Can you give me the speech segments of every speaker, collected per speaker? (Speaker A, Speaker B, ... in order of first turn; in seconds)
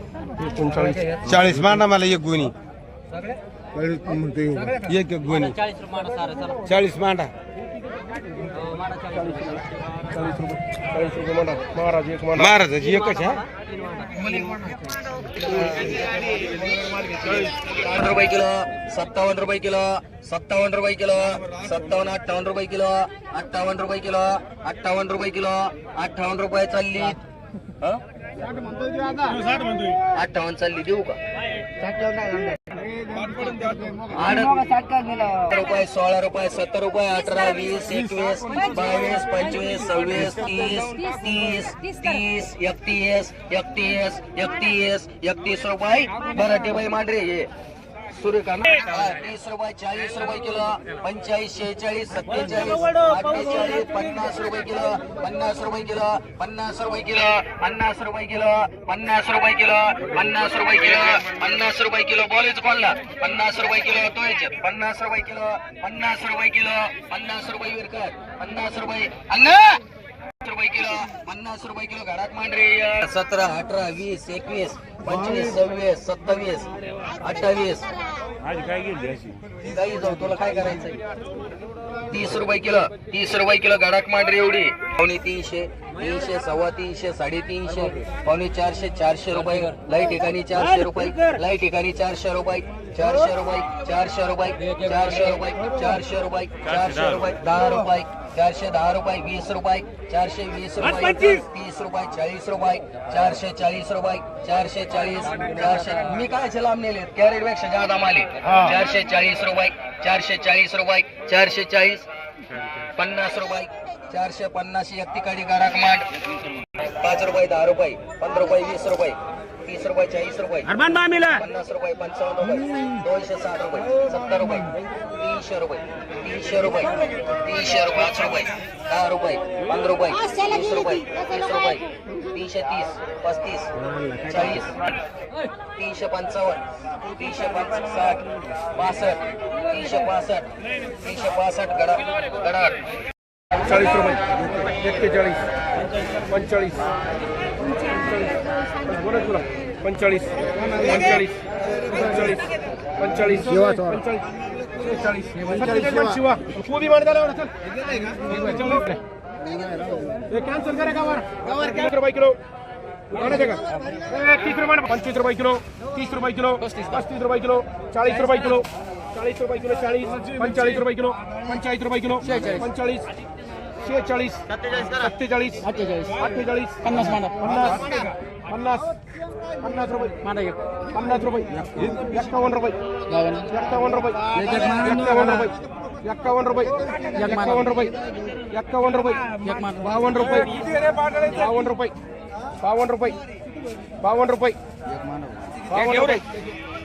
Speaker A: 0.4-1.3, 9.1-12.6, 15.5-15.9, 143.6-145.4, 146.3-146.8, 147.7-154.2, 154.8-157.5, 158.3-159.0, 160.3-162.4, 163.1-173.1, 173.8-178.9, 179.6-180.2, 180.9-182.8, 183.5-185.5, 186.0-187.9, 188.5-191.9, 192.6-193.2, 194.0-194.6, 195.7-196.2
Speaker B: 1.2-2.5, 3.8-7.3, 12.4-13.4, 28.6-29.7, 31.8-34.1, 34.8-35.1, 78.6-79.3, 153.6-153.9, 155.6-155.9, 157.8-158.2, 159.6-160.1, 172.3-172.6, 175.8-176.2, 177.0-177.5, 181.8-182.1, 183.2-183.4, 184.3-185.3, 187.1-187.6, 189.4-189.9, 190.7-191.3, 195.7-196.1
Speaker C: 17.2-27.2, 30.1-31.2, 34.1-47.5, 48.1-69.8, 70.4-76.7, 77.2-77.9, 79.7-81.0, 82.1-112.1, 112.9-116.1, 117.0-133.7, 134.2-134.7, 135.8-140.5, 141.0-142.8, 166.7-167.0, 174.6-174.9